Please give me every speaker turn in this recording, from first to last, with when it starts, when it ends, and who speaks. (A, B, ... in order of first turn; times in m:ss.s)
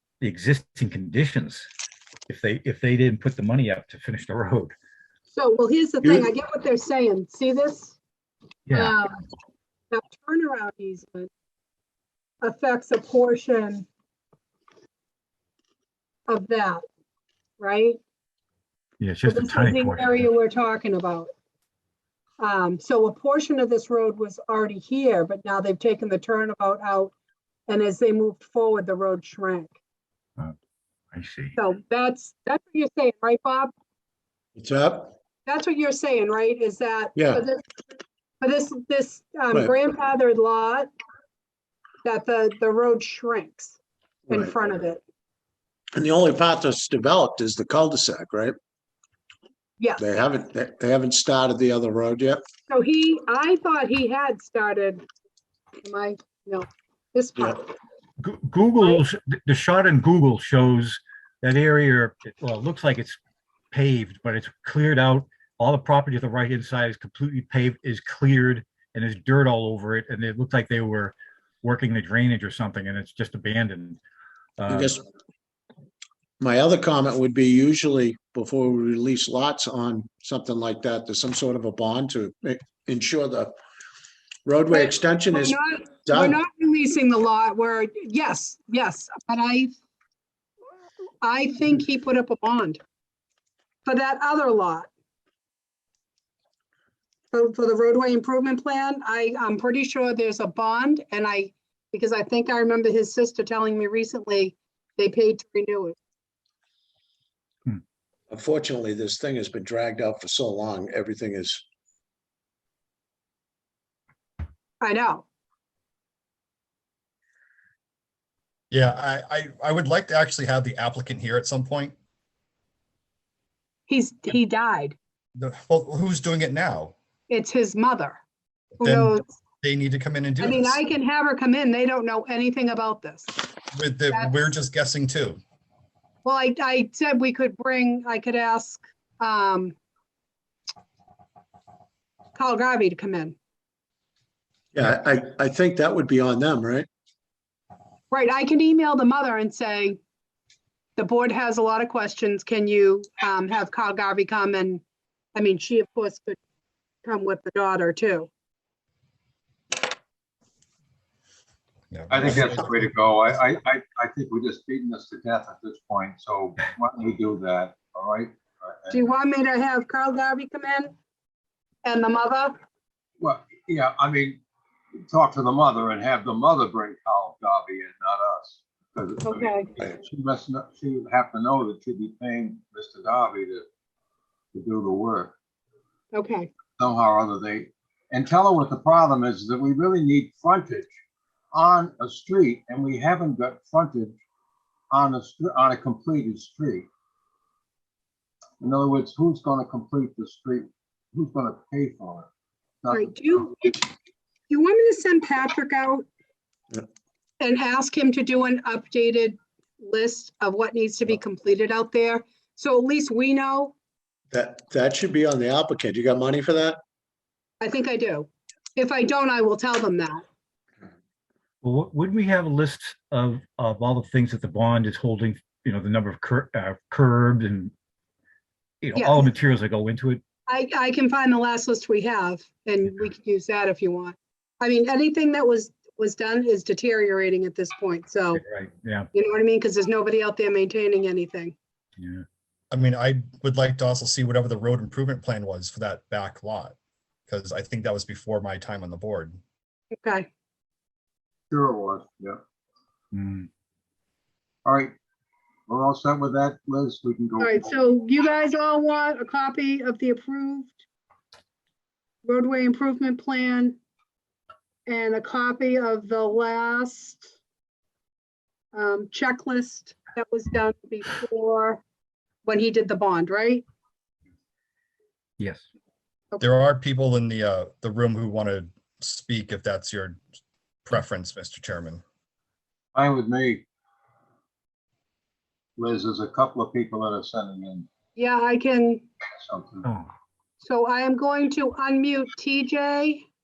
0:00.2-0:01.7 A
0:02.3-0:04.7 A
0:05.3-0:08.0 B
0:08.7-0:09.0 A
0:08.7-0:09.2 B
0:09.9-0:11.3 B
0:12.4-0:13.9 B
0:16.3-0:16.8 B
0:17.6-0:18.0 B
0:19.0-0:20.2 A
0:19.3-0:21.3 B
0:22.4-0:27.1 B
0:27.7-0:29.7 B
0:31.1-0:31.6 A
0:31.6-0:33.7 B
0:34.6-0:35.1 C
0:35.4-0:37.6 B
0:37.2-0:37.4 C
0:38.4-0:40.9 B
0:42.0-0:43.8 B
0:44.3-0:44.5 C
0:44.3-0:45.0 B
0:45.9-0:48.6 C
0:50.0-0:52.4 C
0:52.7-0:55.0 B
0:55.8-0:57.6 B
0:58.2-1:03.2 A
1:03.7-1:14.0 A
1:14.6-1:15.0 A
1:14.7-1:15.0 C
1:16.4-1:23.6 C
1:24.4-1:26.4 C
1:24.7-1:29.7 B
1:31.2-1:32.8 B
1:33.8-1:34.9 B
1:37.3-1:46.0 B
1:48.3-1:51.6 C
1:54.8-1:55.2 B
1:58.7-2:01.9 D
2:03.9-2:05.0 B
2:05.4-2:06.9 D
2:07.3-2:08.2 B
2:08.8-2:10.8 D
2:08.8-2:09.3 B
2:10.4-2:13.4 B
2:13.7-2:15.4 D
2:16.2-2:19.8 B
2:22.3-2:23.4 B
2:24.7-2:26.9 C
2:28.1-2:30.0 B
2:31.0-2:34.8 B
2:35.3-2:36.4 B
2:37.0-2:38.3 B
2:41.9-2:42.9 D
2:42.1-2:49.0 E
2:48.9-2:50.9 B
2:51.8-2:52.6 B
2:53.2-2:54.4 E
2:55.1-3:03.6 E
2:59.2-2:59.7 B
3:04.5-3:05.3 E
3:06.1-3:06.5 B
3:06.8-3:10.9 E
3:11.5-3:14.2 E
3:14.9-3:16.9 E
3:18.6-3:22.3 E
3:22.8-3:23.4 E
3:22.9-3:23.8 B
3:24.5-3:26.1 B
3:27.4-3:33.8 B
3:34.3-3:36.8 C
3:37.6-3:40.2 B
3:41.6-3:47.7 A
3:48.8-3:50.2 A
3:49.0-3:49.3 B
3:50.5-3:58.4 B
3:58.3-3:59.1 A
3:59.1-4:01.6 B
4:02.0-4:02.2 A
4:02.7-4:06.8 D
4:07.3-4:09.4 D
4:10.0-4:10.3 B
4:11.5-4:12.4 E
4:13.1-4:13.5 A
4:14.6-4:14.9 E
4:15.7-4:17.7 E
4:17.4-4:20.8 B
4:22.2-4:23.8 B
4:24.8-4:27.3 B
4:28.7-4:31.8 B
4:32.4-4:33.6 B
4:35.4-4:35.6 A
4:36.4-4:40.2 D
4:40.8-4:42.0 D
4:42.9-4:43.6 E
4:45.8-4:47.9 E
4:48.2-4:49.0 B
4:49.4-4:49.9 E
4:49.8-4:50.1 A
4:50.6-4:53.2 B